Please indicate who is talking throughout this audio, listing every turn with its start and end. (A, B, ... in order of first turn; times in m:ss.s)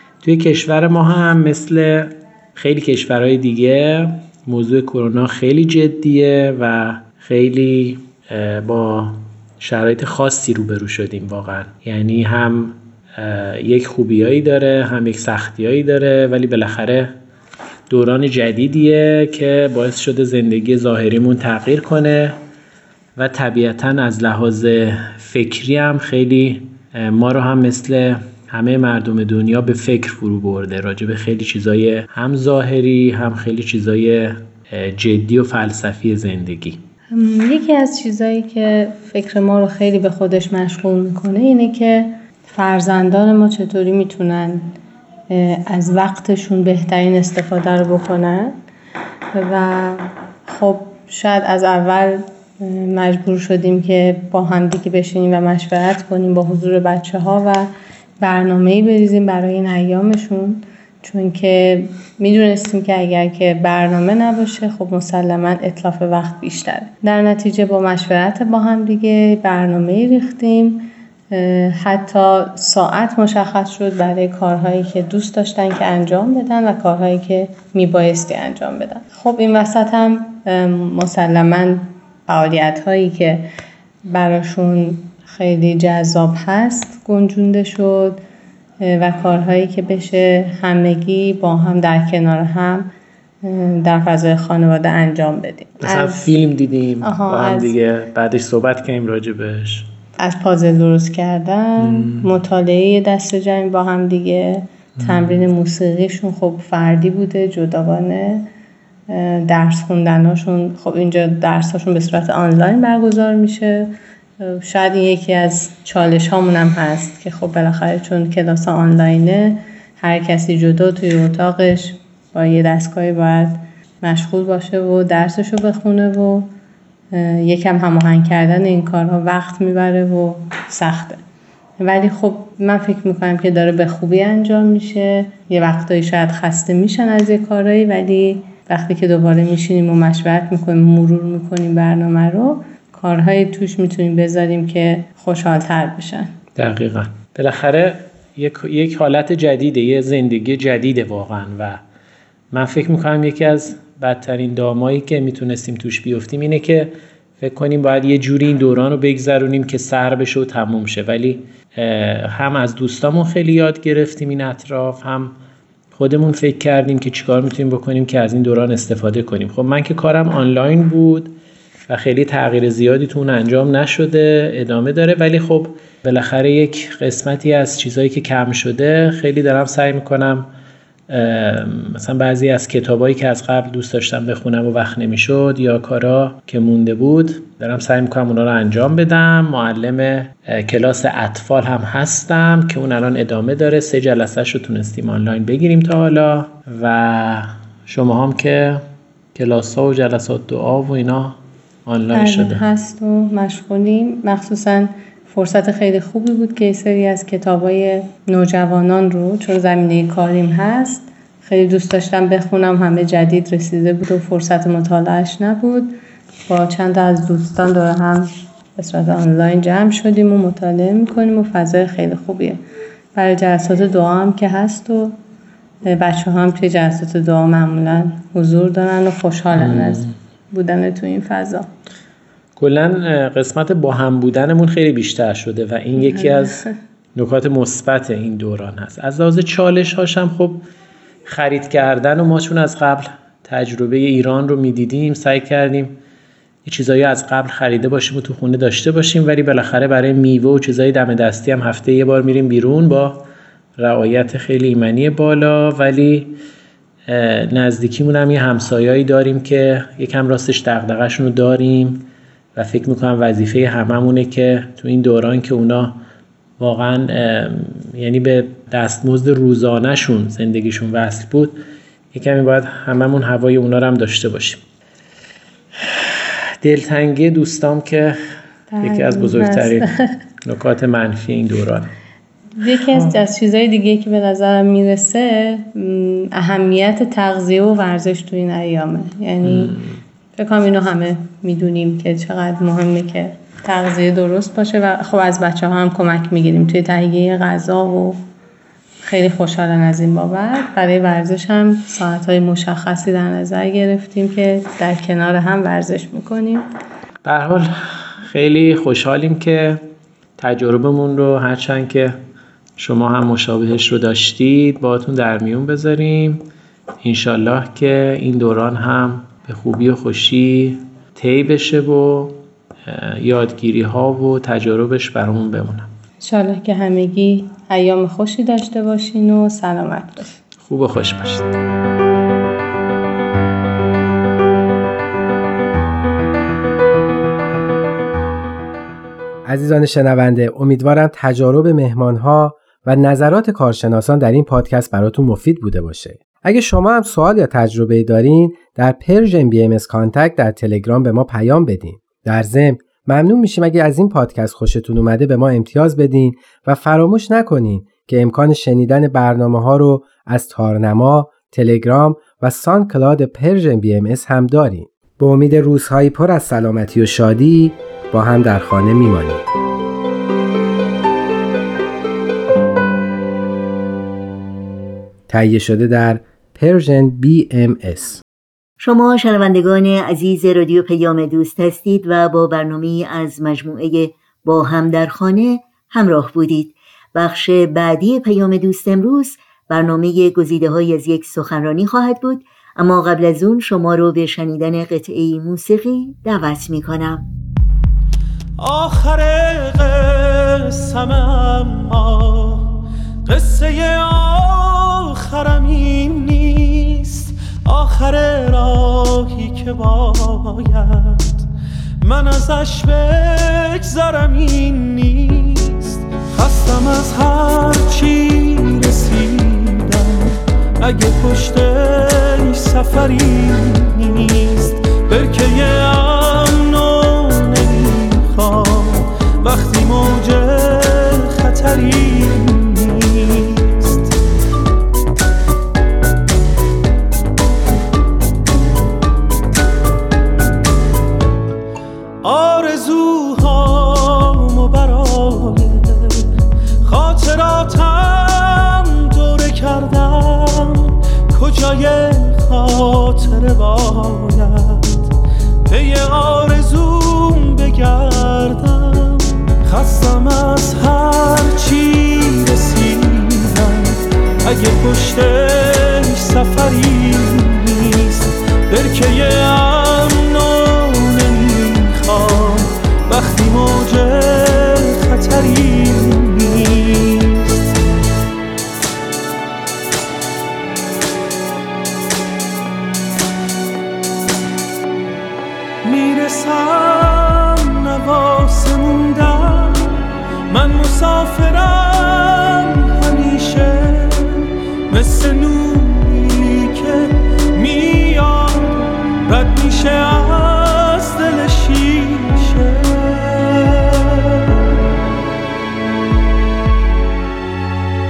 0:00.2-0:17.1 A
0:17.9-0:22.4 A
0:23.2-0:36.8 A
0:37.1-0:44.7 B
0:45.3-0:48.6 B
0:49.3-0:57.7 B
0:58.2-1:23.5 B
1:24.0-1:28.2 B
1:28.8-1:32.9 B
1:33.4-1:36.3 B
1:35.8-1:39.9 A
1:37.0-1:37.7 B
1:40.2-1:48.5 B
1:41.9-1:42.2 A
1:45.0-1:45.4 A
1:49.1-2:06.5 B
2:07.1-2:11.2 B
2:11.8-2:26.3 B
2:26.6-2:31.8 A
2:32.5-2:45.4 A
2:45.9-2:51.4 A
2:51.9-3:00.5 A
3:01.1-3:22.6 A
3:22.1-3:36.0 B
3:36.5-3:42.6 B
3:43.1-3:45.2 B
3:45.8-3:51.7 B
3:49.5-3:50.0 A
3:52.6-3:56.6 A
3:56.0-3:56.7 B
3:57.1-4:00.6 A
4:01.2-4:06.0 A
4:06.6-4:13.2 A
4:13.8-4:16.4 A
4:17.1-4:26.0 A
4:26.6-4:31.6 A
4:32.1-4:34.6 A
4:36.6-4:38.2 A
4:38.7-4:40.2 B
4:38.8-4:39.8 A
4:40.4-4:41.9 A
4:42.6-4:49.7 B
4:42.9-4:43.2 A
4:49.4-4:50.0 A
4:50.4-4:58.2 B
4:59.0-5:06.7 B
5:07.2-5:09.8 A
5:10.4-5:12.2 A
5:12.8-5:16.4 A
5:17.0-5:25.9 A
5:26.2-5:30.3 B
5:30.6-5:31.5 A
5:39.4-6:09.4 C
6:15.3-6:18.2 C
6:18.8-6:37.2 D
6:38.6-6:51.4 E
6:52.0-7:14.1 E
7:22.2-7:26.3 E
7:26.8-7:35.1 E
7:35.7-7:57.7 E
8:05.8-8:24.4 E